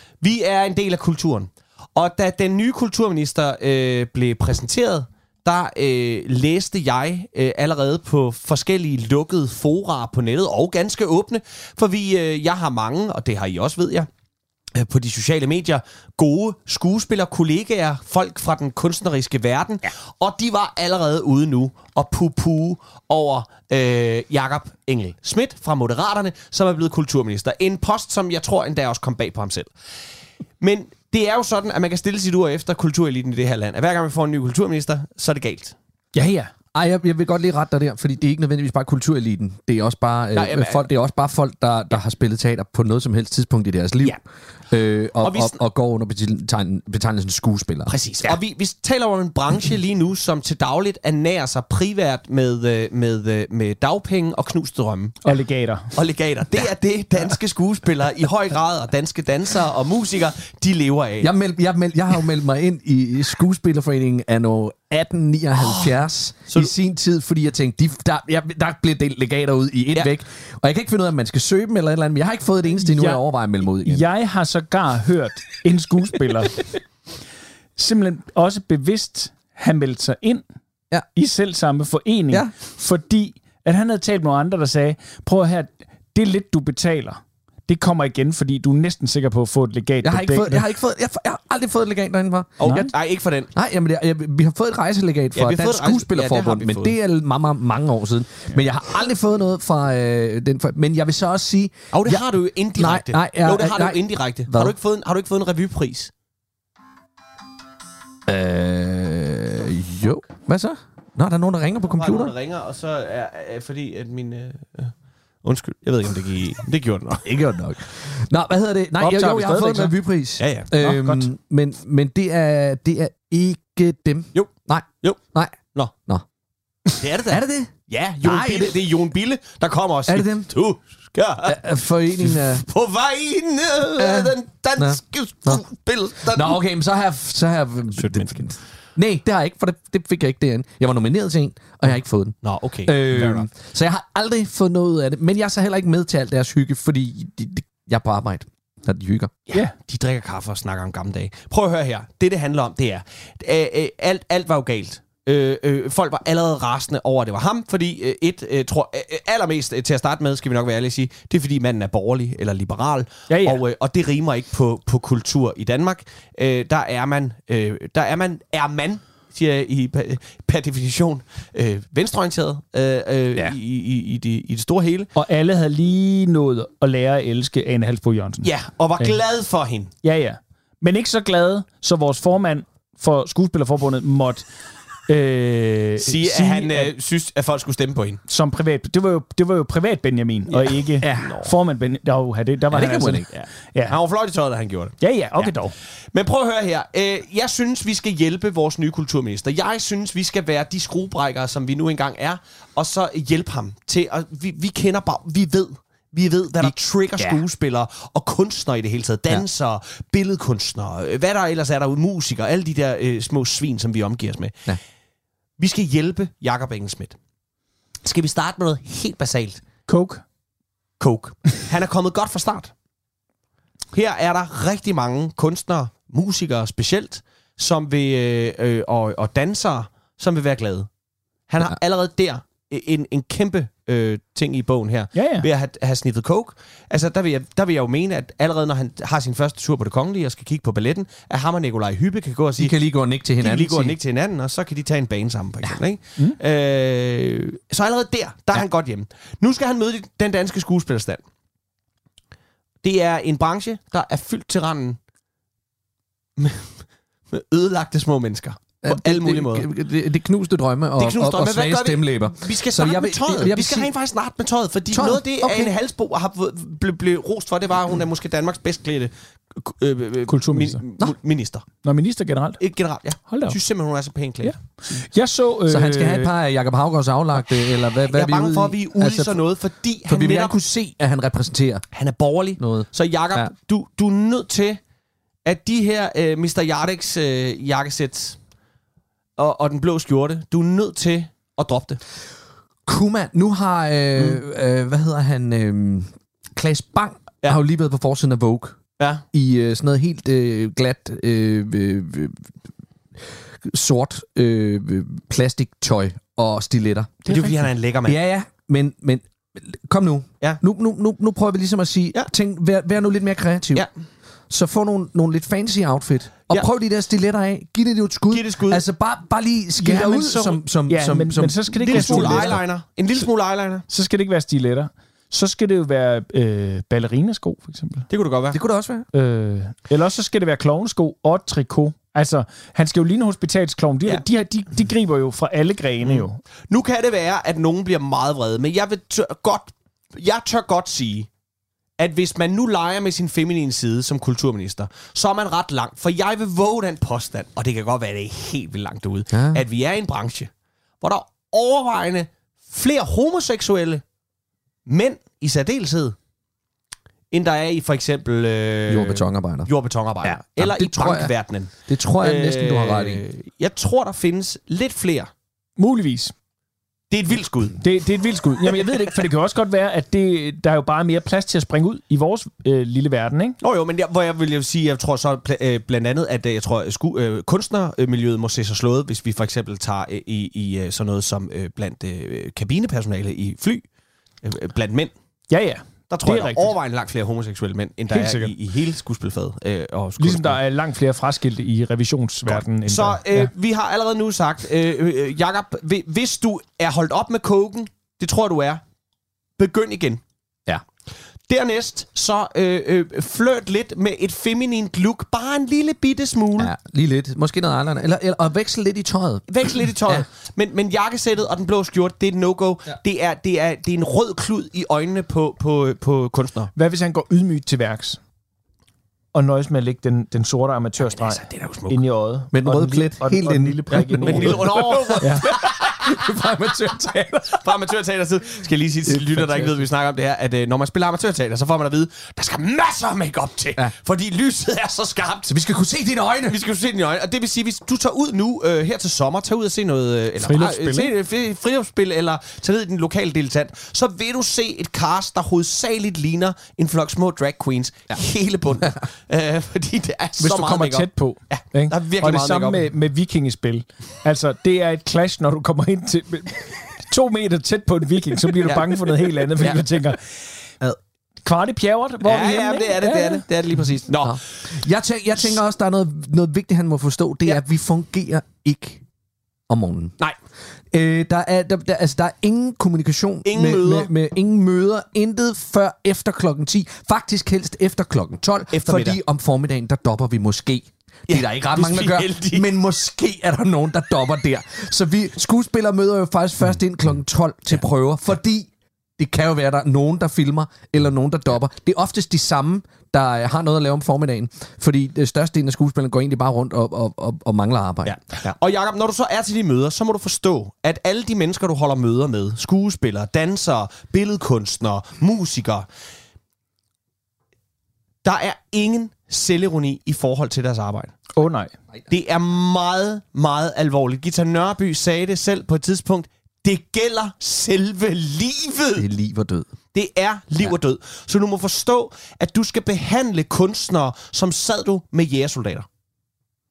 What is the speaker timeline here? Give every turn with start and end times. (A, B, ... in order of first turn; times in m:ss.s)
0:00.2-0:14.1 A
0:14.8-0:29.7 A
0:30.6-0:35.8 A
0:36.2-0:36.5 B
0:36.8-0:44.2 C
0:40.4-0:40.9 A
0:44.7-0:48.4 C
0:45.2-0:45.6 A
0:47.9-0:55.3 A
0:55.2-0:55.9 B
0:55.9-1:01.3 A
1:01.2-1:14.1 C
1:05.6-1:05.9 A
1:12.8-1:13.2 B
1:13.8-1:16.7 B
1:17.8-1:20.4 B
1:21.2-1:30.7 B
1:30.0-1:32.8 C
1:32.6-1:33.5 A
1:32.6-1:32.9 B
1:33.6-1:42.2 C
1:35.4-1:36.9 A
1:41.9-1:46.1 A
1:42.8-1:44.8 C
1:48.3-1:52.3 C
1:51.9-1:54.9 A
1:55.4-1:57.2 A
1:57.2-2:06.2 C
1:59.0-1:59.9 B
2:00.4-2:00.7 A
2:00.8-2:01.3 B
2:04.4-2:05.2 A
2:07.0-2:16.6 A
2:07.2-2:08.9 C
2:10.1-2:10.5 C
2:11.4-2:12.6 C
2:14.0-2:15.6 C
2:16.2-2:29.4 C
2:18.0-2:18.6 A
2:22.4-2:23.5 A
2:29.5-2:55.1 A
2:43.3-2:43.6 B
2:55.2-2:59.2 B
2:58.4-2:59.9 A
3:00.0-3:04.5 B
3:05.1-3:06.9 B
3:06.0-3:08.2 A
3:08.3-3:14.0 B
3:10.5-3:11.5 A
3:11.0-3:11.3 C
3:12.7-3:13.3 C
3:13.3-3:15.5 A
3:15.0-3:15.7 B
3:16.1-3:34.6 A
3:26.6-3:27.4 C
3:35.6-3:37.2 A
3:38.0-3:39.6 A
3:39.9-3:40.2 B
3:41.0-3:42.7 A
3:43.9-3:50.9 A
3:51.5-4:02.8 A
3:55.1-3:55.5 B
4:02.6-4:04.0 C
4:03.4-4:11.2 A
4:12.8-4:15.0 A
4:16.4-4:16.7 A
4:17.3-4:19.7 A
4:18.8-4:23.9 C
4:21.0-4:31.7 A
4:24.9-4:25.7 C
4:30.3-4:30.8 B
4:31.8-4:32.6 B
4:32.6-4:34.6 A
4:33.3-4:33.6 B
4:34.4-4:36.3 B
4:35.7-4:39.4 C
4:38.1-4:40.5 A
4:40.1-4:41.9 C
4:41.9-4:44.8 A
4:42.6-4:43.5 C
4:45.4-4:48.4 A
4:49.4-4:52.0 A
4:52.9-4:58.8 C
4:59.0-4:59.2 A
4:59.3-5:02.5 C
5:03.6-5:13.9 C
5:07.3-5:08.2 A
5:14.5-5:22.6 C
5:18.3-5:18.8 A
5:19.8-5:22.6 B
5:21.8-5:23.9 A
5:23.9-5:28.1 B
5:28.1-5:28.6 A
5:28.5-5:29.1 C
5:29.1-5:36.4 B
5:36.0-5:41.3 A
5:42.0-5:50.5 A
5:49.3-5:49.6 C
5:51.0-5:54.0 A
5:54.9-5:56.2 A
5:57.3-6:05.3 A
5:58.9-5:59.7 C
6:00.2-6:01.3 C
6:01.9-6:03.2 C
6:05.8-6:06.3 B
6:07.1-6:07.8 A
6:07.8-6:13.6 B
6:13.6-6:23.8 A
6:24.4-6:25.1 A
6:25.5-6:26.8 B
6:26.1-6:30.6 A
6:28.1-6:28.5 B
6:30.2-6:33.5 B
6:32.5-6:38.8 A
6:39.6-6:40.2 A
6:41.5-6:46.7 A
6:46.6-6:50.2 C
6:49.5-6:56.7 A
6:56.8-6:58.2 B
6:59.3-7:05.5 B
7:01.0-7:02.0 A
7:02.5-7:07.6 C
7:03.9-7:06.1 A
7:07.5-7:15.5 A
7:09.1-7:09.7 C
7:15.5-7:16.6 C
7:16.5-7:32.8 A
7:20.4-7:21.1 B
7:30.4-7:40.2 B
7:38.6-7:39.8 A
7:41.4-7:43.4 B
7:42.2-7:44.4 A
7:44.2-7:49.0 C
7:49.7-7:50.2 C
7:50.9-8:18.2 C
7:53.5-7:54.1 A
7:58.7-7:59.2 A
8:01.3-8:02.7 A
8:18.0-8:25.9 A
8:28.2-8:31.2 A
8:31.3-8:31.7 B
8:32.1-8:39.1 A
8:39.0-8:39.7 C
8:39.9-8:45.9 A